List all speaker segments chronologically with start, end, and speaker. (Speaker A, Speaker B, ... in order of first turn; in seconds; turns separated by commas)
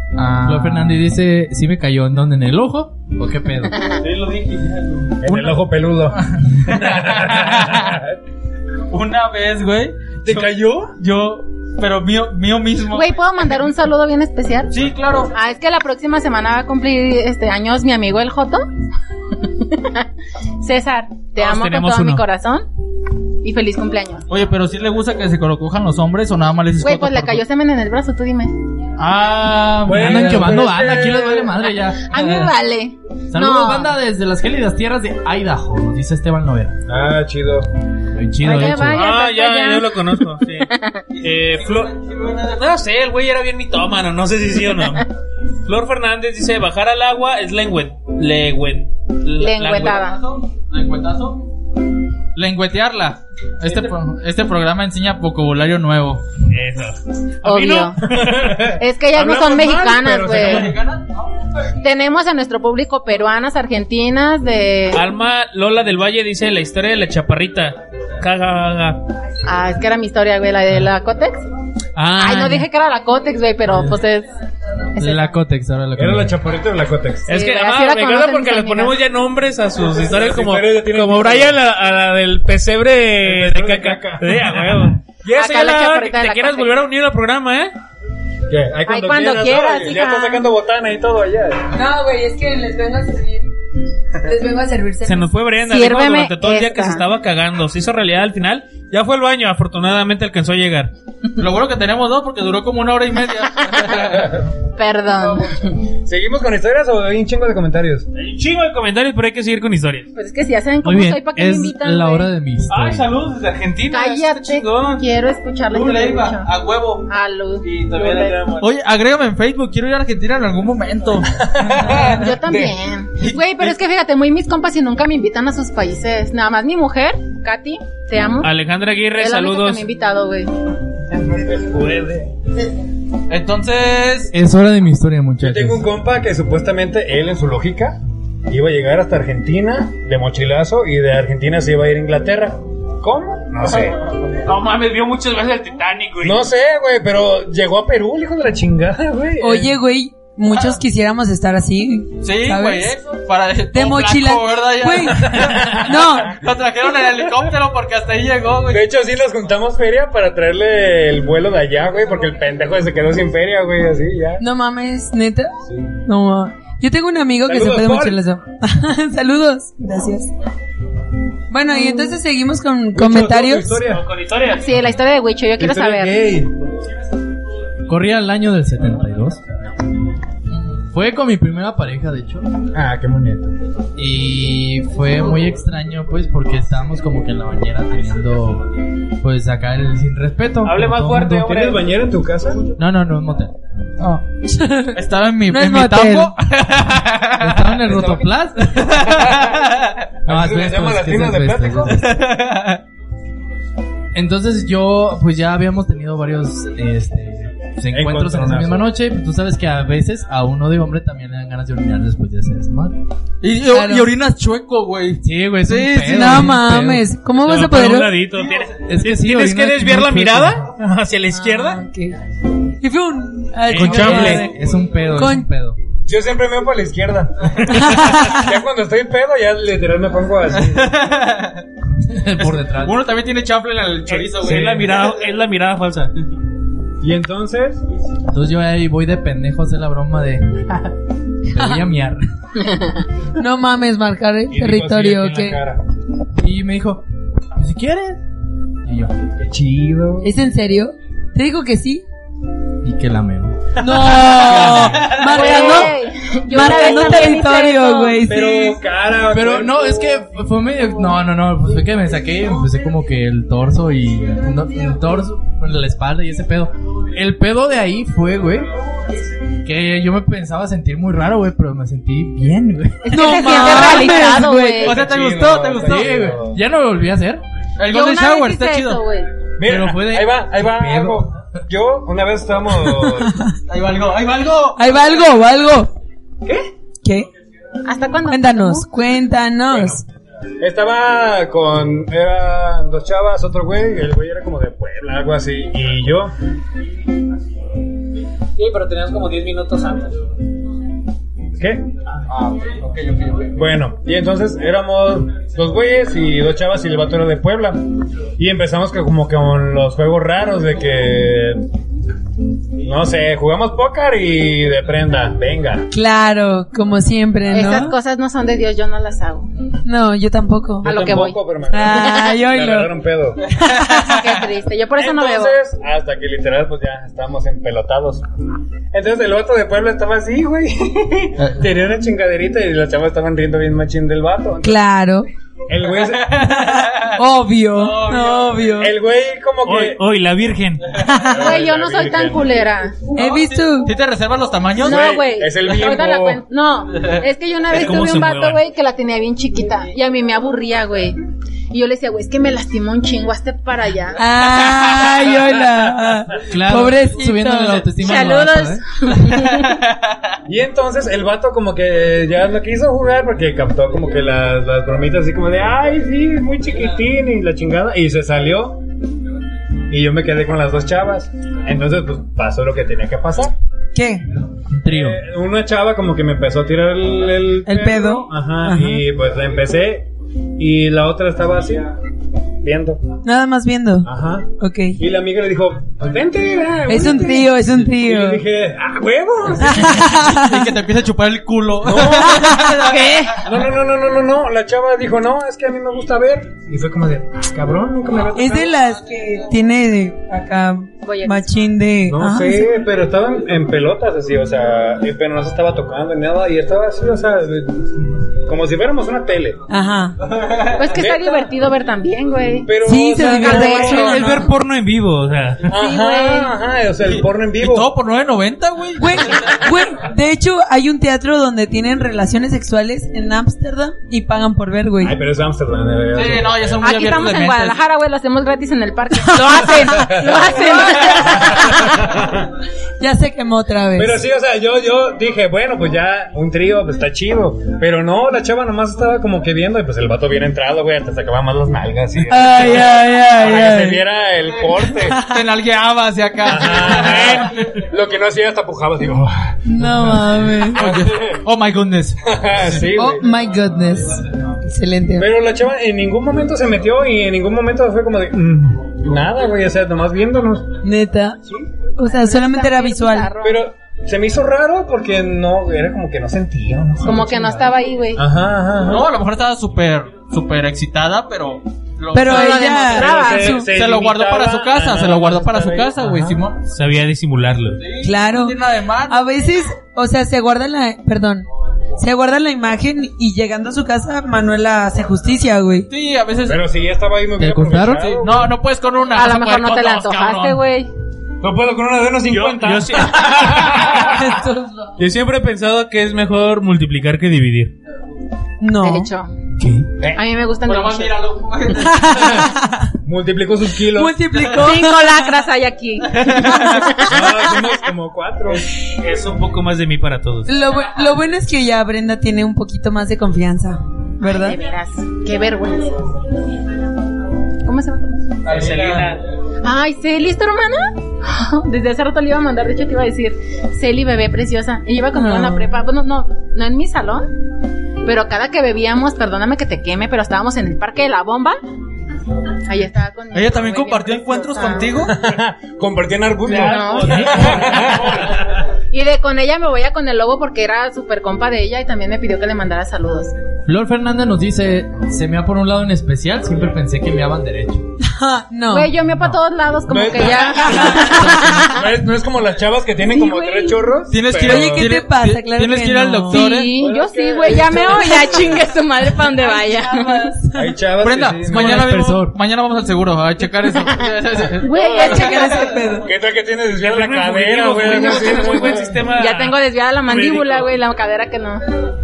Speaker A: 0.1-1.0, Speaker B: 0.3-3.7, Speaker C: 4.0-5.2, Speaker D: 5.2-6.2, Speaker A: 6.7-8.0, Speaker D: 7.1-8.0, Speaker A: 8.9-13.2, Speaker D: 10.2-10.9, Speaker E: 12.9-14.7, Speaker A: 14.7-15.3, Speaker E: 15.3-18.6, Speaker E: 19.5-20.1, Speaker E: 20.6-22.6, Speaker C: 21.4-22.2, Speaker E: 23.4-24.2, Speaker A: 24.3-27.4, Speaker E: 26.8-28.5, Speaker A: 29.0-30.5, Speaker B: 29.8-32.5, Speaker D: 29.9-31.6, Speaker E: 32.0-33.9, Speaker B: 33.3-36.8, Speaker D: 36.9-37.7, Speaker B: 38.1-39.0, Speaker E: 38.4-41.0, Speaker C: 38.6-40.7, Speaker C: 41.2-45.0, Speaker A: 41.6-42.5, Speaker C: 45.6-50.1, Speaker E: 49.4-50.2, Speaker A: 50.0-51.4, Speaker A: 52.4-56.2, Speaker C: 56.5-58.6, Speaker E: 57.4-58.1, Speaker D: 58.1-60.7, Speaker E: 58.7-60.7, Speaker A: 60.4-61.1, Speaker E: 61.8-65.0, Speaker C: 64.9-69.0, Speaker E: 69.4-71.4, Speaker C: 71.9-72.7, Speaker E: 72.2-74.3, Speaker E: 75.0-75.4, Speaker B: 75.0-76.4, Speaker D: 76.0-77.3, Speaker E: 77.3-79.0, Speaker C: 77.3-87.7, Speaker D: 79.9-81.6, Speaker D: 83.2-84.8, Speaker E: 85.3-86.8, Speaker D: 88.5-91.6, Speaker E: 88.8-90.5, Speaker F: 91.7-93.5, Speaker F: 94.2-95.3, Speaker C: 95.0-100.9, Speaker E: 95.6-97.0, Speaker A: 101.4-104.3, Speaker E: 104.7-105.8, Speaker D: 106.0-108.0, Speaker C: 108.1-110.1, Speaker E: 110.1-112.3, Speaker B: 110.8-113.1, Speaker C: 112.7-115.0, Speaker E: 113.9-116.5, Speaker A: 115.7-117.0, Speaker E: 117.0-118.4, Speaker C: 117.6-118.7, Speaker A: 118.6-122.1, Speaker D: 121.3-122.7, Speaker E: 122.0-128.5, Speaker A: 123.2-123.7, Speaker C: 128.4-129.8, Speaker E: 129.2-130.5, Speaker D: 131.1-132.2, Speaker A: 133.3-134.3, Speaker B: 134.3-135.9, Speaker D: 135.4-144.0, Speaker C: 144.4-146.4, Speaker D: 146.2-149.7, Speaker F: 149.4-153.0, Speaker A: 152.2-158.8, Speaker F: 153.7-156.4, Speaker D: 158.7-164.4, Speaker F: 164.4-170.3, Speaker D: 165.7-165.9, Speaker D: 167.4-168.2, Speaker F: 171.5-173.8, Speaker D: 172.9-174.1, Speaker C: 173.9-174.8, Speaker E: 174.6-176.2, Speaker D: 175.6-176.5, Speaker B: 177.9-179.4, Speaker B: 180.8-182.5, Speaker D: 182.7-183.5, Speaker B: 183.9-188.7, Speaker B: 189.2-191.7, Speaker C: 190.6-191.8, Speaker D: 191.4-192.7, Speaker B: 192.7-193.6, Speaker F: 194.0-196.3, Speaker A: 194.9-197.8, Speaker B: 197.4-198.8, Speaker D: 197.9-198.3, Speaker A: 198.8-200.0, Speaker D: 200.2-202.0, Speaker B: 200.3-202.0, Speaker A: 201.9-202.8, Speaker B: 204.1-213.0, Speaker D: 207.9-208.8, Speaker A: 213.4-215.9, Speaker F: 213.6-214.1, Speaker B: 215.2-217.1, Speaker F: 216.0-218.2, Speaker C: 217.3-221.8, Speaker B: 218.8-220.7, Speaker F: 221.3-222.2, Speaker F: 222.8-224.5, Speaker B: 223.7-225.8, Speaker C: 223.7-224.4, Speaker F: 225.1-225.5, Speaker D: 226.1-230.9, Speaker F: 227.9-228.4, Speaker A: 230.6-231.6, Speaker B: 232.1-233.0, Speaker A: 232.4-234.9, Speaker C: 234.2-236.1, Speaker D: 234.4-234.9, Speaker D: 237.0-237.8, Speaker B: 238.3-240.9, Speaker B: 241.5-242.2, Speaker F: 243.4-245.6, Speaker D: 244.5-245.8, Speaker B: 246.4-247.0, Speaker B: 247.6-248.2, Speaker B: 248.8-249.2, Speaker D: 249.4-250.3, Speaker F: 250.2-252.0, Speaker B: 252.8-253.7, Speaker F: 253.8-256.0, Speaker D: 253.8-254.9, Speaker B: 254.5-255.2, Speaker E: 255.3-258.2, Speaker F: 256.5-258.8, Speaker D: 258.2-259.9, Speaker B: 259.3-268.7, Speaker B: 269.6-273.8, Speaker E: 273.0-275.0, Speaker F: 273.1-274.9, Speaker D: 274.8-276.6, Speaker A: 274.8-276.0, Speaker B: 275.0-277.4, Speaker A: 277.8-279.0, Speaker E: 277.9-279.3, Speaker D: 279.6-283.4, Speaker B: 279.6-281.2, Speaker F: 282.9-283.5, Speaker A: 283.7-284.8, Speaker F: 284.8-285.9, Speaker F: 287.0-287.3, Speaker E: 287.8-288.9, Speaker F: 288.2-290.0, Speaker D: 289.7-290.0, Speaker D: 290.6-296.3, Speaker C: 298.6-300.2, Speaker D: 301.6-301.8, Speaker A: 302.4-303.6, Speaker D: 303.5-307.8, Speaker D: 308.4-311.6, Speaker D: 312.8-315.9, Speaker F: 315.9-317.9, Speaker E: 317.5-319.5, Speaker F: 319.8-320.9, Speaker D: 320.8-323.5, Speaker E: 320.8-322.4, Speaker F: 321.7-322.9, Speaker F: 323.5-324.1, Speaker E: 324.0-325.6, Speaker D: 324.9-328.2, Speaker D: 328.9-334.8, Speaker F: 334.6-335.3, Speaker D: 335.7-336.5, Speaker A: 336.2-337.2, Speaker F: 336.6-338.9, Speaker A: 337.7-338.6, Speaker D: 338.8-340.0, Speaker C: 339.6-340.8, Speaker F: 341.0-341.5, Speaker D: 341.3-342.5, Speaker E: 341.3-343.1, Speaker F: 343.1-343.9, Speaker A: 343.2-345.0, Speaker D: 344.8-346.4, Speaker E: 344.8-351.2, Speaker C: 347.7-348.6, Speaker E: 351.7-354.2, Speaker F: 354.2-357.9, Speaker B: 356.5-358.8, Speaker E: 357.9-359.7, Speaker A: 359.3-360.0, Speaker D: 360.5-368.8, Speaker D: 369.9-373.5, Speaker F: 373.9-374.2, Speaker B: 374.8-375.2, Speaker D: 374.9-381.9, Speaker F: 377.6-379.0, Speaker D: 382.6-383.0, Speaker F: 383.2-385.0, Speaker D: 384.0-390.0, Speaker F: 386.9-388.4, Speaker F: 389.6-390.7, Speaker A: 390.4-393.3, Speaker D: 391.8-392.5, Speaker F: 392.3-392.7, Speaker E: 392.8-393.4, Speaker D: 393.4-398.8, Speaker F: 398.3-402.7, Speaker E: 401.0-401.5, Speaker D: 402.1-407.9, Speaker D: 408.4-409.6, Speaker F: 409.7-410.1, Speaker E: 410.8-414.3, Speaker D: 410.9-411.5, Speaker D: 412.6-414.2, Speaker F: 412.8-414.5, Speaker C: 413.8-415.7, Speaker D: 415.7-417.9, Speaker F: 415.8-416.5, Speaker E: 415.8-416.4, Speaker A: 417.1-419.6, Speaker F: 419.0-425.2, Speaker D: 425.0-426.8, Speaker A: 426.1-427.8, Speaker E: 426.8-432.0, Speaker F: 429.2-431.4, Speaker D: 429.9-430.6, Speaker D: 431.9-432.5, Speaker F: 433.0-434.2, Speaker D: 433.9-445.2, Speaker F: 442.3-444.0, Speaker F: 444.8-445.2, Speaker A: 445.2-447.5, Speaker D: 446.4-449.6, Speaker F: 449.6-450.8, Speaker A: 450.7-452.8, Speaker D: 450.8-451.4, Speaker D: 452.2-453.2, Speaker F: 452.9-455.3, Speaker D: 455.2-460.8, Speaker F: 460.8-461.4, Speaker F: 462.0-463.3, Speaker E: 462.0-463.6, Speaker D: 463.4-469.1, Speaker E: 467.0-468.2, Speaker A: 468.8-473.0, Speaker F: 472.1-473.7, Speaker E: 472.3-473.6, Speaker D: 472.9-476.4, Speaker A: 473.6-476.6, Speaker C: 476.7-477.8, Speaker A: 477.8-479.2, Speaker F: 478.0-481.4, Speaker F: 482.0-485.9, Speaker A: 485.9-486.6, Speaker D: 486.4-488.5, Speaker B: 487.4-488.2, Speaker A: 488.0-490.6, Speaker E: 489.1-490.9, Speaker D: 491.4-494.0, Speaker C: 492.3-494.0, Speaker F: 494.0-494.9, Speaker C: 495.0-497.7, Speaker F: 498.6-499.1, Speaker E: 498.8-499.3, Speaker E: 500.1-501.1, Speaker A: 500.6-502.4, Speaker F: 501.8-502.9, Speaker D: 503.0-504.2, Speaker F: 503.9-505.3, Speaker E: 504.5-507.6, Speaker A: 506.1-506.9, Speaker F: 506.4-506.8, Speaker D: 507.0-508.6, Speaker C: 508.8-510.5, Speaker F: 510.5-514.6, Speaker E: 514.2-516.1, Speaker E: 517.6-518.3, Speaker C: 518.5-519.2, Speaker A: 518.5-519.0, Speaker E: 519.6-527.3, Speaker F: 525.1-525.8, Speaker E: 528.0-531.6, Speaker E: 532.6-535.0, Speaker A: 533.3-535.1, Speaker D: 535.1-538.3, Speaker E: 536.5-537.7, Speaker C: 536.5-538.0, Speaker E: 538.9-543.3, Speaker B: 543.6-547.8, Speaker F: 548.0-548.9, Speaker E: 548.7-551.9, Speaker D: 549.9-554.9, Speaker F: 550.4-551.6, Speaker E: 553.1-553.8, Speaker A: 554.1-556.8, Speaker F: 554.4-556.6, Speaker E: 556.3-560.4, Speaker D: 556.7-558.6, Speaker F: 559.9-560.7, Speaker D: 560.5-562.0, Speaker A: 561.0-565.6, Speaker B: 561.5-562.4, Speaker E: 564.6-565.7, Speaker F: 564.8-566.1, Speaker D: 566.0-568.9, Speaker C: 566.8-570.7, Speaker E: 567.9-571.6